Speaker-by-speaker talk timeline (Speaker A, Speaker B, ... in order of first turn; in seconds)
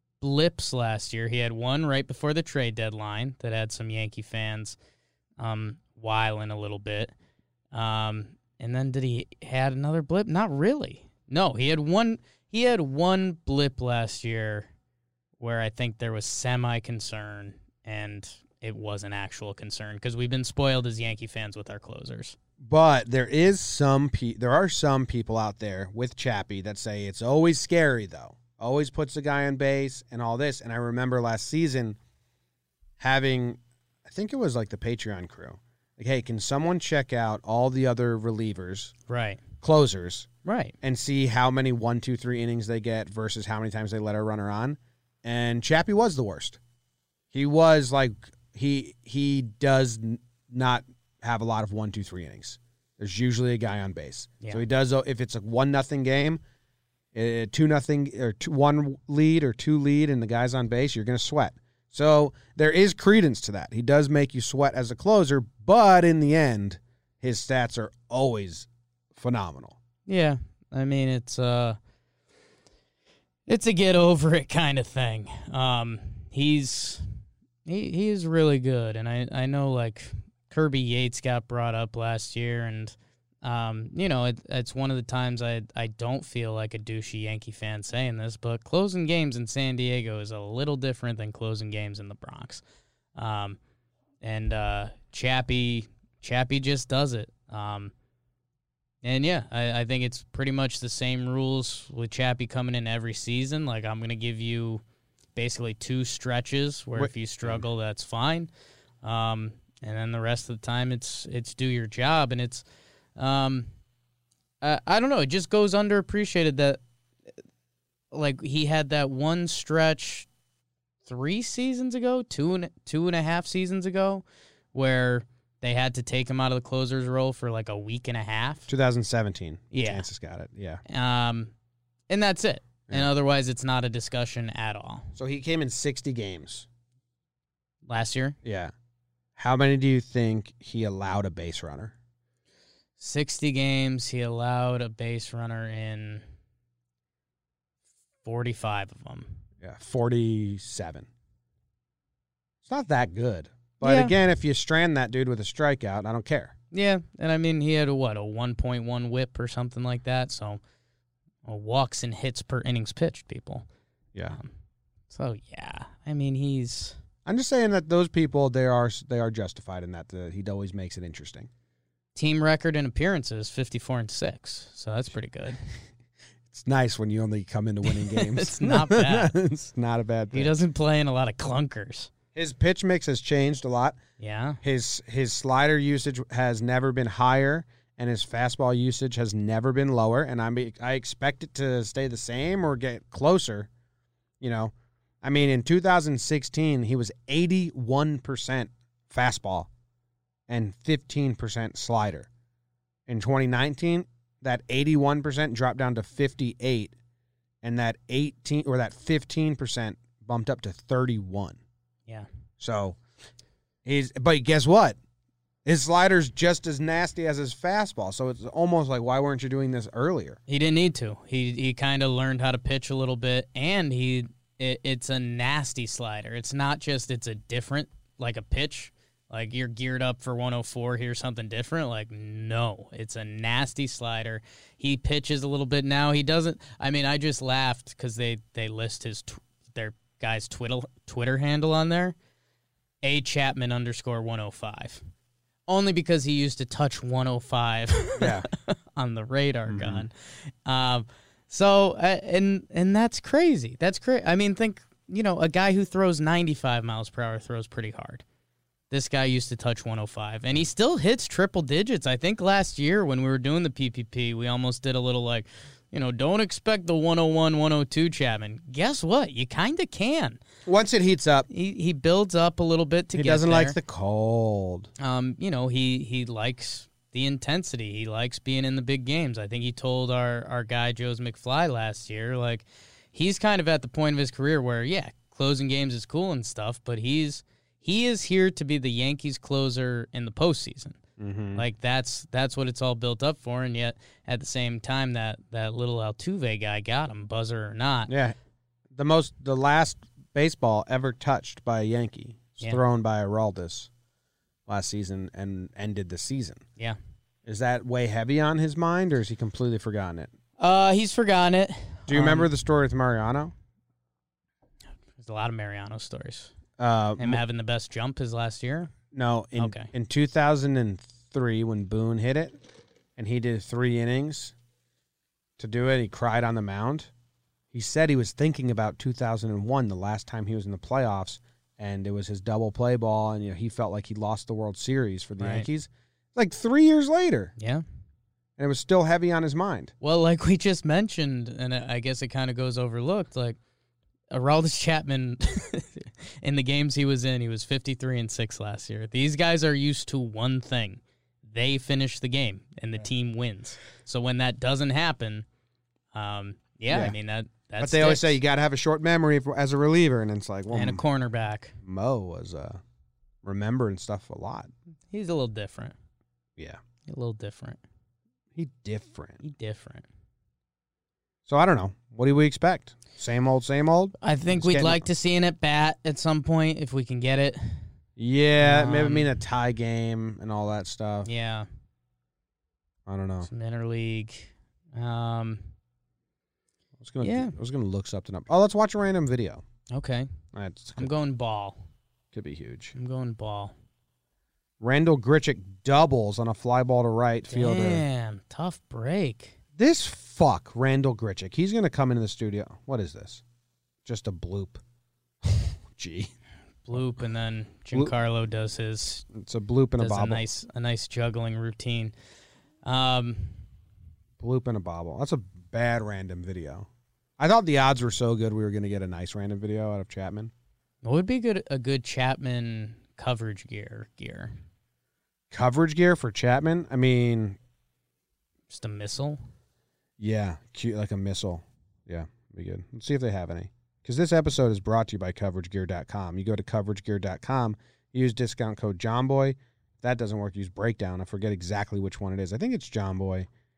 Speaker A: 0.2-4.8, 5.4-7.1, 7.7-14.7, 15.4-22.4, 39.1-39.4, 40.4-40.8, 70.1-71.8, 73.5-77.0, 77.7-92.6, 93.2-93.6, 94.2-97.9, 99.0-104.8, 105.3-108.5, 109.0-112.6, 113.2-113.7, 114.6-116.8, 118.1-120.3, 121.0-128.7, 129.7-130.1, 130.9-131.5, 132.1-135.1, 137.9-138.4, 143.0-146.2, 148.2-149.3, 153.8-154.1, 156.7-160.6, 161.4-163.7, 165.1-166.9, 172.1-175.6, 177.9-179.4, 180.3-182.1, 184.2-184.6, 220.5-242.2, 243.0-245.0, 245.7-258.2, 258.9-270.4, 271.5-273.8, 275.0-291.0, 291.6-298.1, 310.6-312.5, 315.2-316.5, 317.2-318.9, 319.6-319.9, 335.4-335.7, 337.6-337.8, 340.0-343.6, 344.3-355.4, 356.1-358.4, 360.7-361.7, 365.1-365.9, 367.1-367.8, 369.4-370.1, 374.2-377.8, 378.6-379.3, 381.2-381.7, 383.4-385.6, 387.2-387.6, 389.9-390.3, 391.0-391.8, 392.9-393.7, 397.5-399.6, 406.9-409.3, 410.0-412.1, 412.8-413.6, 421.0-424.5, 428.7-429.4
Speaker B: 22.6-32.0, 33.0-38.9, 39.6-40.3, 40.8-46.6, 47.3-56.4, 57.1-69.8, 107.0-107.7, 128.7-130.8, 135.2-136.7, 138.4-138.7, 139.4-141.9, 149.6-151.1, 152.6-156.6, 164.1-164.4, 167.2-171.5, 176.5-180.6, 182.3-184.0, 184.6-193.7, 194.4-199.7, 200.5-202.3, 203.1-206.9, 207.6-211.6, 212.6-213.0, 213.8-215.0, 215.6-220.4, 248.2-248.5, 249.7-250.1, 270.7-271.5, 273.1-274.9, 291.2-291.7, 298.1-298.4, 298.9-303.9, 304.7-306.6, 307.4-310.3, 312.1-313.5, 316.8-317.4, 319.1-322.6, 323.2-324.6, 325.6-327.1, 327.7-337.5, 338.6-339.9, 356.9-357.2, 357.8-361.1, 361.8-362.8, 363.4-364.7, 368.6-369.4, 371.4-375.1, 378.2-381.3, 383.1-383.5, 387.0-389.6, 390.5-391.1, 392.3-392.9, 394.8-398.1, 399.8-403.4, 404.1-404.8, 405.4-406.3, 409.3-410.4, 414.4-420.5, 425.5-427.6, 430.2-443.5